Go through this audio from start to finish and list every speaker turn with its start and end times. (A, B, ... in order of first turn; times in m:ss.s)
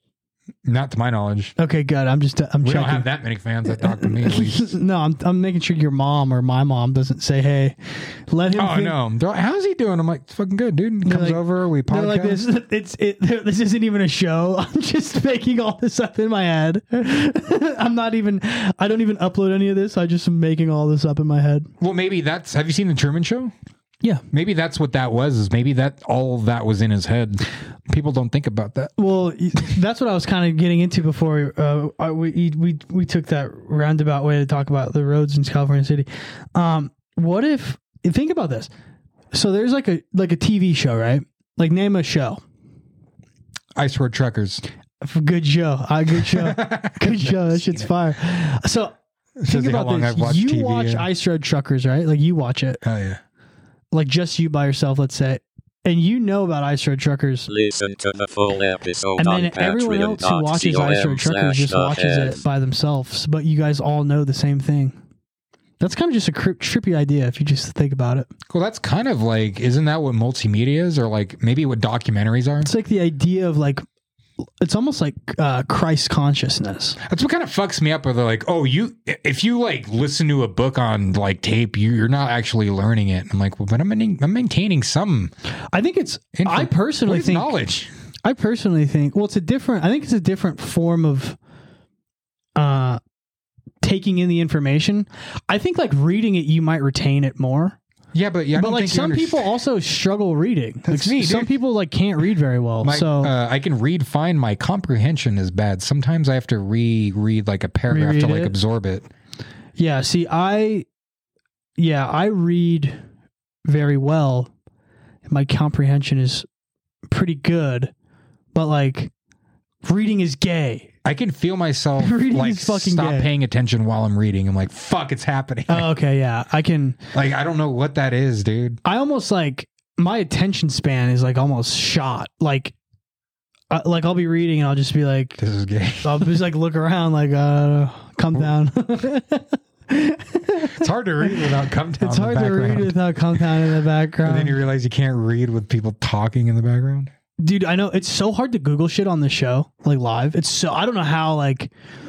0:00.6-0:01.5 A
0:01.6-0:03.1 B
0:02.6-0:04.8 A
0:03.7-0:09.0 B
0:08.5-0:12.4 A
0:11.0-0:21.7 B
0:21.8-0:23.5 A
0:24.3-0:28.9 A
0:29.0-0:38.7 B
0:39.3-0:42.4 B
0:43.8-0:44.6 A
0:45.0-0:48.9 B
0:46.3-0:47.9 A
0:49.4-0:51.1 A
0:49.5-0:52.8 B
0:52.8-0:53.2 A
0:53.9-0:57.5 B
0:57.5-1:02.4 C
0:59.2-1:05.0 B
1:05.8-1:08.3 B
1:08.5-1:12.7 A
1:12.6-1:13.8 B
1:14.6-1:17.0 B
1:17.0-1:25.3 A
1:25.7-1:27.5 B
1:26.3-1:27.9 A
1:28.2-1:31.4 B
1:32.6-1:33.0 B
1:33.8-1:37.8 B
1:38.1-1:39.5 A
1:38.5-1:43.3 B
1:40.9-1:41.5 A
1:42.8-1:49.1 A
1:47.9-1:48.6 B
1:49.8-1:50.8 B
1:51.8-1:53.0 B
1:53.6-1:54.5 B
1:55.3-1:56.4 B
1:57.1-1:57.9 B
1:58.5-1:59.1 B
1:59.8-2:00.9 B
2:01.0-2:05.9 A
2:02.0-2:03.3 B
2:05.7-2:07.0 B
2:07.1-2:08.8 A
2:08.8-2:12.7 B
2:13.7-2:15.4 B
2:15.4-2:16.4 A
2:16.0-2:24.6 B
2:20.6-2:23.4 A
2:24.2-2:27.1 A
2:27.4-2:31.7 B